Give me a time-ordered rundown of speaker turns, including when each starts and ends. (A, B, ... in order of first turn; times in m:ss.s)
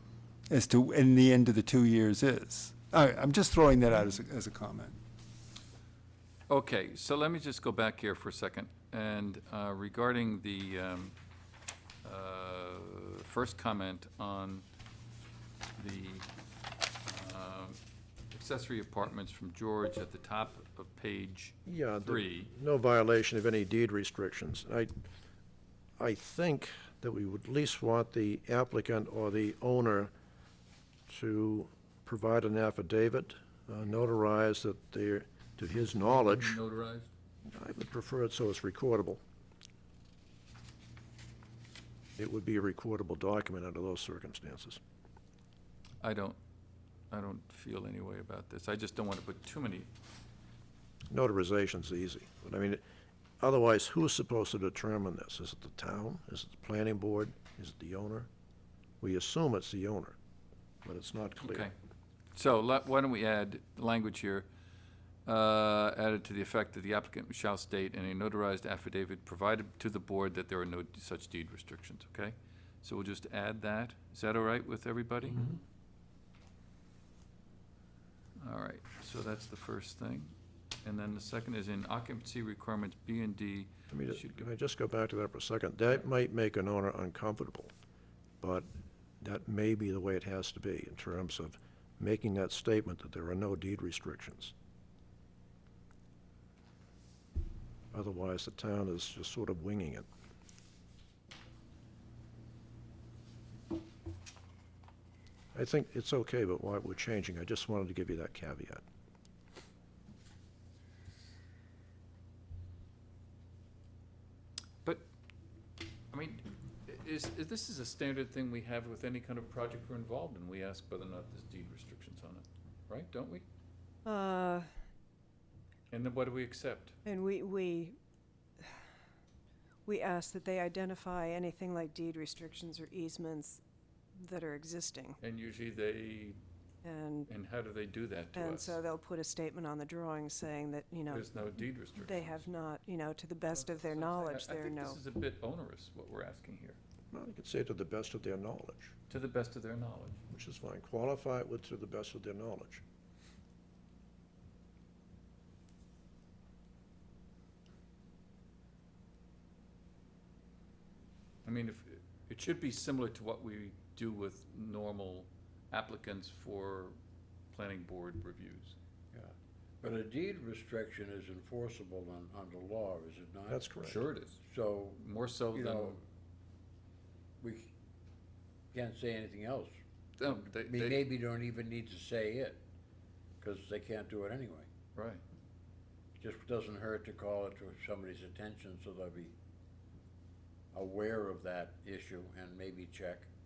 0:00.5-0:05.0 A
0:06.5-0:11.1 B
0:12.0-0:14.6 B
0:15.8-0:16.3 B
0:17.0-0:17.8 B
0:18.3-0:22.5 B
0:21.6-0:24.9 C
0:26.0-0:30.1 C
0:31.1-0:36.6 C
0:36.0-0:37.1 B
0:37.5-0:39.2 C
0:42.2-0:44.8 C
0:46.0-0:46.4 B
0:47.1-0:49.9 B
0:51.1-0:52.8 C
0:53.4-0:58.3 C
0:59.0-1:00.2 C
1:00.8-1:01.7 C
1:01.4-1:01.7 B
1:02.3-1:04.5 B
1:05.2-1:15.5 B
1:18.4-1:24.4 B
1:23.9-1:27.7 C
1:28.4-1:28.7 C
1:29.2-1:34.5 C
1:37.9-1:40.1 C
1:45.5-1:48.8 C
1:56.1-2:03.4 B
2:04.0-2:04.7 D
2:05.9-2:06.9 B
2:07.0-2:08.0 D
2:09.8-2:13.6 D
2:14.2-2:15.2 D
2:15.2-2:16.4 B
2:16.8-2:17.3 D
2:17.3-2:18.8 B
2:18.3-2:25.0 D
2:21.1-2:22.4 B
2:23.5-2:26.8 B
2:27.1-2:28.9 C
2:29.1-2:30.2 B
2:30.3-2:32.8 C
2:41.4-2:47.0 B
2:47.5-2:48.7 B
2:49.1-2:53.7 E
2:53.5-2:54.0 C
2:53.8-2:54.4 B
2:54.4-2:56.0 E
2:54.9-2:56.0 B
2:57.4-2:57.7 E
2:58.7-3:02.6 E
3:00.2-3:01.0 B
3:03.4-3:04.7 E
3:04.9-3:05.2 B
3:06.2-3:09.3 E
3:10.7-3:13.3 E